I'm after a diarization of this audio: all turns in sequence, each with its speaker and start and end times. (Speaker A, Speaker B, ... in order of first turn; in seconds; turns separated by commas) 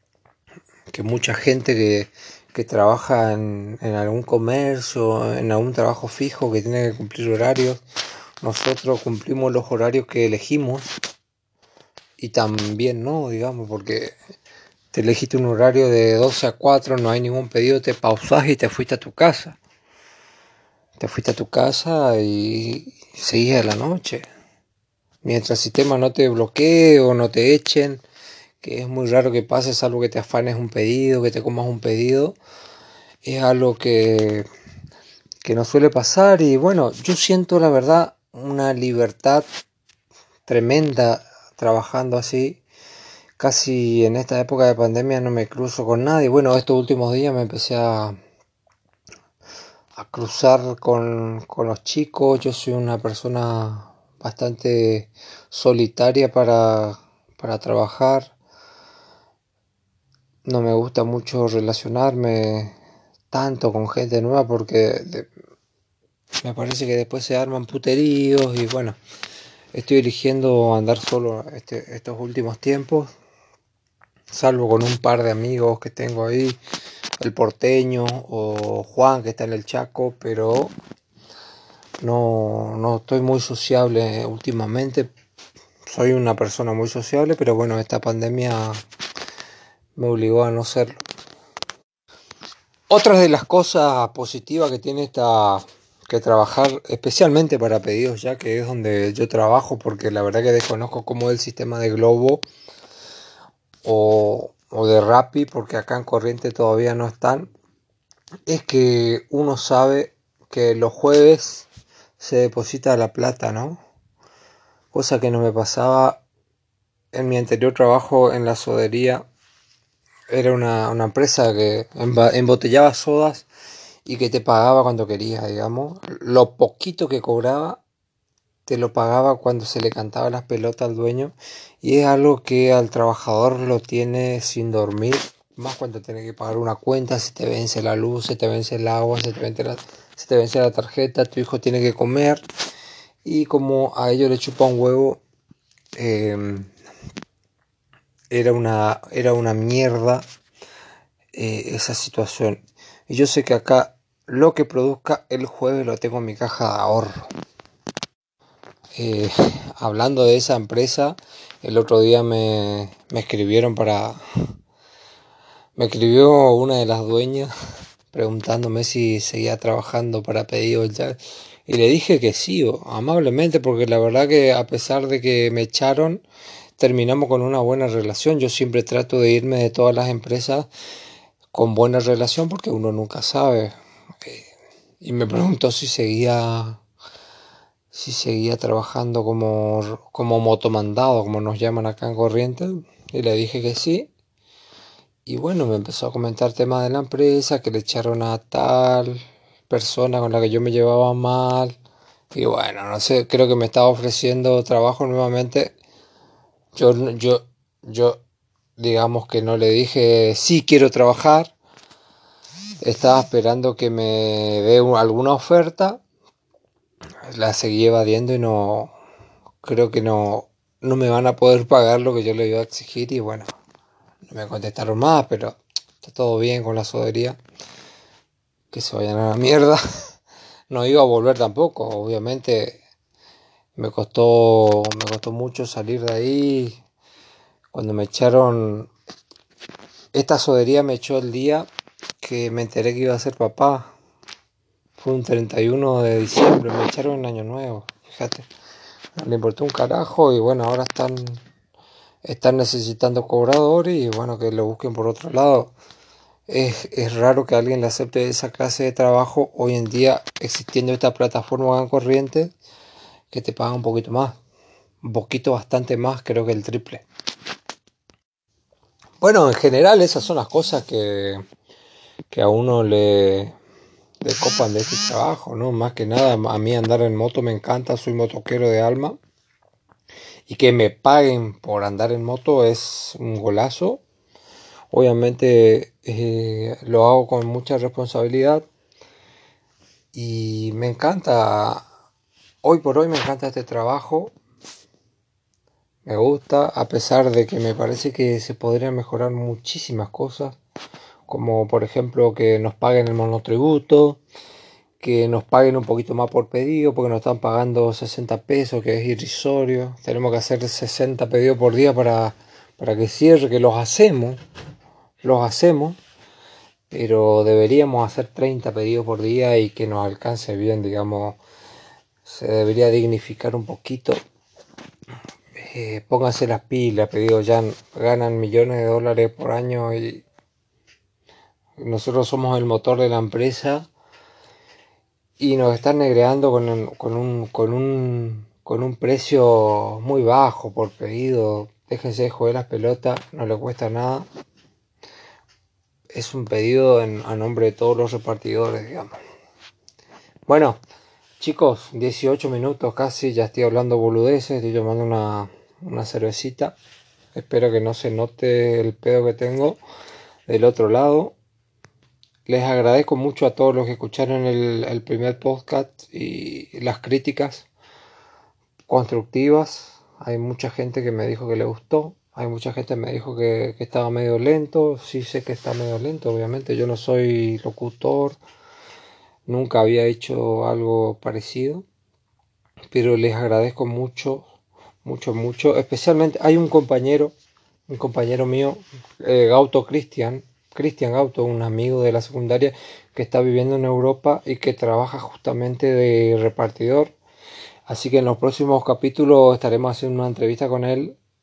Speaker A: 0.9-7.8, Speaker A: 8.4-11.0, Speaker A: 12.2-14.1, Speaker A: 14.9-19.6, Speaker A: 21.0-24.3, Speaker A: 25.2-28.0, Speaker A: 28.6-32.4, Speaker A: 33.2-34.5, Speaker A: 35.4-39.5, Speaker A: 40.5-42.6, Speaker A: 43.4-48.2, Speaker A: 50.0-58.3, Speaker A: 60.5-62.7, Speaker A: 63.3-65.3, Speaker A: 66.4-69.0, Speaker A: 69.7-73.1, Speaker A: 74.3-76.6, Speaker A: 77.2-80.7, Speaker A: 82.0-85.1, Speaker A: 85.8-88.8, Speaker A: 90.0-91.0, Speaker A: 92.9-102.4, Speaker A: 103.8-107.5, Speaker A: 108.5-111.7, Speaker A: 112.2-113.8, Speaker A: 114.9-116.2, Speaker A: 117.1-119.2, Speaker A: 120.3-123.5, Speaker A: 124.0-127.8, Speaker A: 128.7-142.4, Speaker A: 143.2-145.2, Speaker A: 146.0-146.7, Speaker A: 148.3-150.2, Speaker A: 151.3-157.2, Speaker A: 158.9-164.2, Speaker A: 165.8-167.5, Speaker A: 168.1-176.2, Speaker A: 176.8-180.7, Speaker A: 181.5-184.4, Speaker A: 185.0-186.8, Speaker A: 187.9-194.1, Speaker A: 195.2-201.8, Speaker A: 202.3-205.7, Speaker A: 206.7-208.2, Speaker A: 208.8-211.5, Speaker A: 212.8-216.0, Speaker A: 217.2-218.9, Speaker A: 219.6-223.5, Speaker A: 224.3-227.4, Speaker A: 228.7-229.8, Speaker A: 230.7-232.8, Speaker A: 233.8-236.8, Speaker A: 237.7-238.9, Speaker A: 240.1-241.7, Speaker A: 242.2-243.9, Speaker A: 245.0-248.4, Speaker A: 249.2-251.4, Speaker A: 252.2-255.7, Speaker A: 256.5-262.5, Speaker A: 263.3-264.4, Speaker A: 265.0-267.0, Speaker A: 269.2-271.4, Speaker A: 272.3-273.5, Speaker A: 274.2-279.1, Speaker A: 280.5-284.0, Speaker A: 284.9-288.6, Speaker A: 290.1-291.8, Speaker A: 292.6-294.3, Speaker A: 296.0-300.6, Speaker A: 301.3-304.2, Speaker A: 305.0-314.4, Speaker A: 315.2-316.0, Speaker A: 316.9-321.4, Speaker A: 322.2-324.2, Speaker A: 325.5-330.2, Speaker A: 331.8-333.9, Speaker A: 335.4-344.2, Speaker A: 346.1-349.1, Speaker A: 350.5-350.8, Speaker A: 351.4-356.8, Speaker A: 357.3-359.8, Speaker A: 360.5-361.3, Speaker A: 362.5-367.7, Speaker A: 368.9-378.4, Speaker A: 379.5-381.8, Speaker A: 382.9-384.5, Speaker A: 385.0-387.3, Speaker A: 387.9-397.1, Speaker A: 397.9-401.2